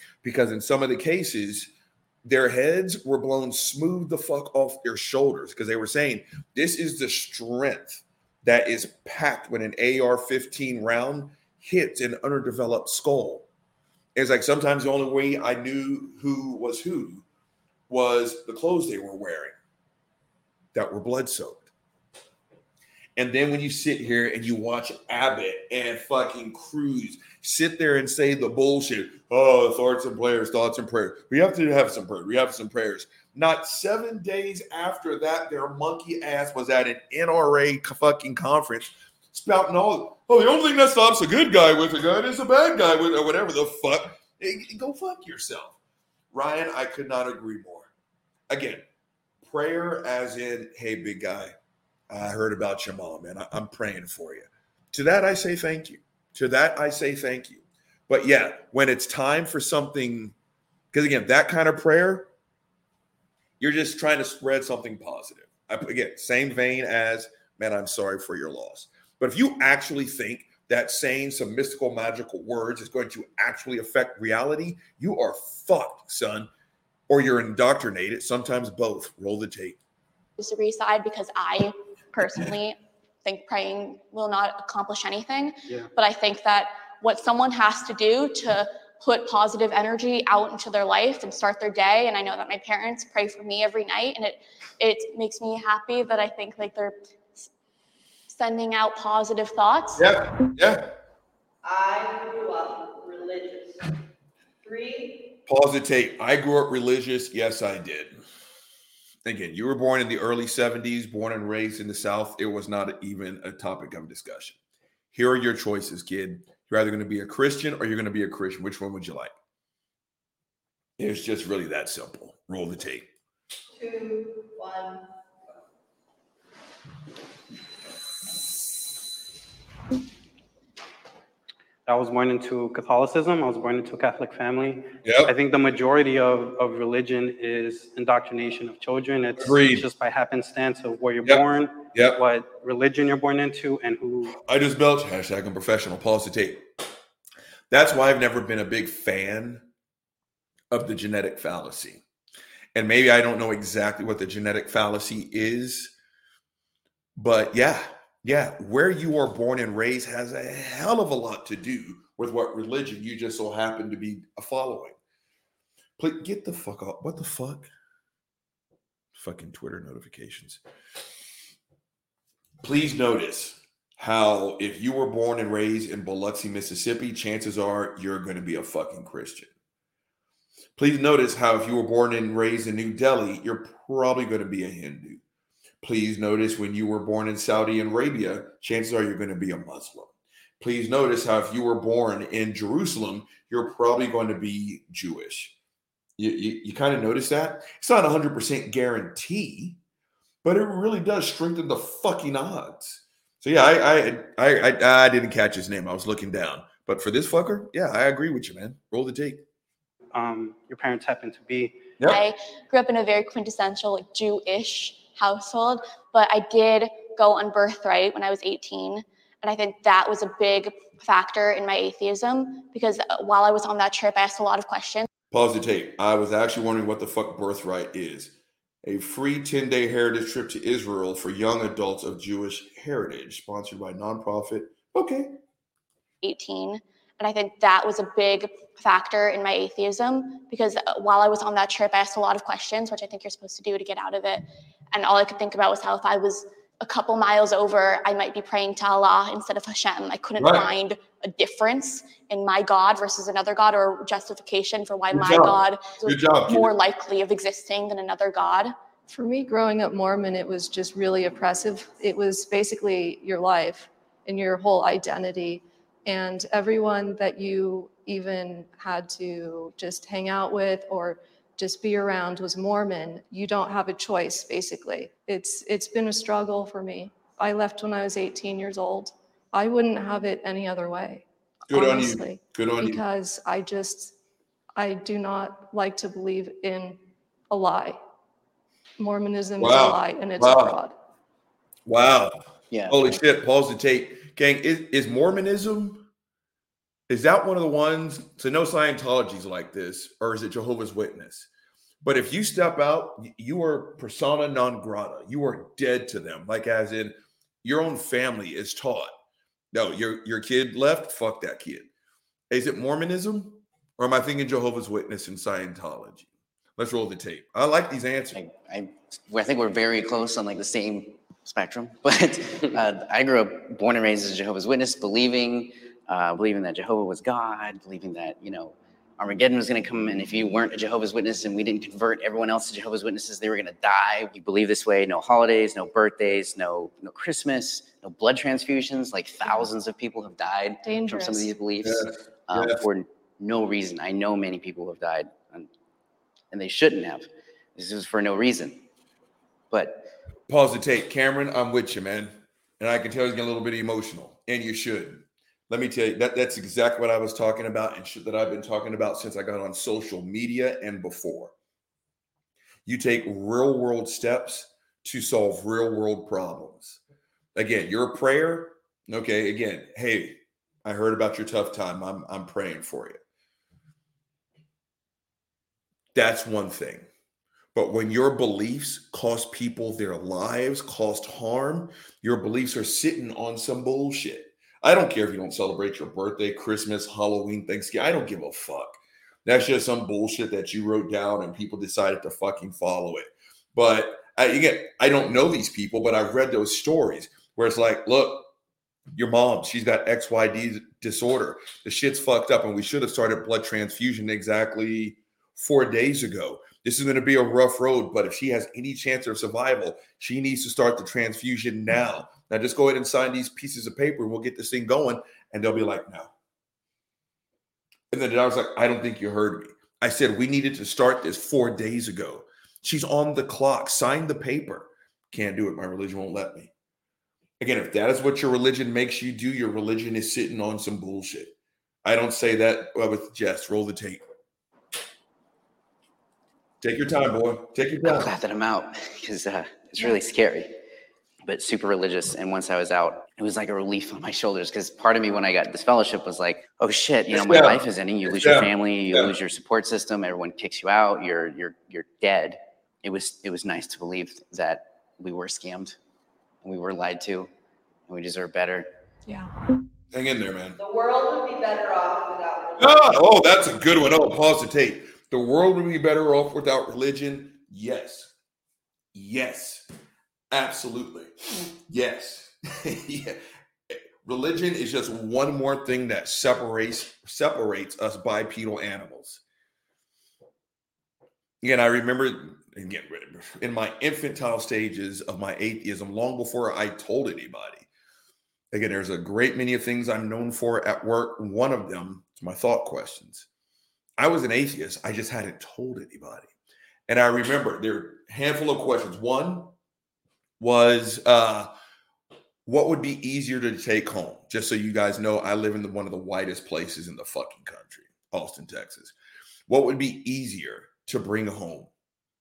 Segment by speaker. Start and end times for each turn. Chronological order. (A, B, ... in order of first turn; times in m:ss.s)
0:00.2-0:01.7 A
0:02.2-0:13.5 A
0:14.2-0:17.2 A
0:17.9-0:19.6 A
0:20.7-0:21.7 A
0:23.2-0:45.8 A
0:46.3-0:47.9 A
0:48.5-0:48.8 A
0:49.4-0:51.5 A
0:52.1-1:00.3 A
1:00.9-1:02.3 A
1:03.6-1:16.5 A
1:17.1-1:19.8 A
1:20.4-1:37.5 B
1:38.3-1:40.0 B
1:40.0-1:40.9 A
1:41.6-1:43.9 C
1:44.6-1:45.3 C
1:45.5-1:48.1 A
1:49.2-1:54.6 A
1:55.1-1:59.3 A
2:01.0-2:03.1 A
2:03.7-2:05.1 C
2:11.8-2:24.4 D
2:15.0-2:15.3 A
2:19.4-2:19.8 A
2:21.2-2:22.2 A
2:24.4-2:26.6 A
2:27.7-2:29.6 A
2:30.7-2:32.0 A
2:32.7-2:35.9 A
2:37.2-2:45.0 A
2:46.0-2:47.7 A
2:49.1-2:50.6 A
2:52.6-2:59.5 A
3:00.8-3:05.2 A
3:05.8-3:15.5 A
3:16.2-3:19.8 A
3:20.4-3:29.4 A
3:30.1-3:31.8 D
3:32.1-3:45.1 B
3:45.3-3:55.4 A
3:56.2-4:18.7 B
4:10.4-4:10.7 A
4:15.1-4:16.7 A
4:19.1-4:44.1 E
4:41.7-4:43.0 A
4:44.8-4:47.0 E
4:47.5-4:48.0 E
4:49.0-4:50.9 E
4:49.6-4:50.8 A
4:51.8-4:56.1 A
4:52.7-4:53.2 F
4:57.1-5:01.5 A
5:02.0-5:09.1 A
5:09.7-5:11.9 A
5:12.5-5:18.4 A
5:18.3-5:45.7 F
5:40.8-5:41.5 E
5:41.8-5:42.8 A
5:46.5-5:48.8 F
5:49.7-5:50.1 F
5:50.5-6:01.5 A
6:02.8-6:07.0 A
6:07.5-6:13.2 A
6:16.1-6:17.0 A
6:17.7-6:38.5 A
6:39.1-6:56.3 A
6:58.1-7:06.7 A
7:07.6-7:14.2 A
7:16.8-7:18.3 A
7:18.0-7:20.7 F
7:21.4-7:36.0 F
7:27.3-7:29.3 A
7:36.6-7:37.5 F
7:38.1-7:38.9 F
7:40.1-7:40.8 A
7:40.8-7:43.1 C
7:42.8-7:48.3 A
7:49.1-7:49.8 A
7:50.5-7:51.3 A
7:51.9-7:53.4 A
7:53.9-7:59.4 A
8:01.6-8:07.9 A
8:08.7-8:13.5 A
8:14.2-8:16.5 A
8:17.1-8:19.7 A
8:20.6-8:21.7 A
8:22.6-8:29.1 A
8:29.7-8:31.9 A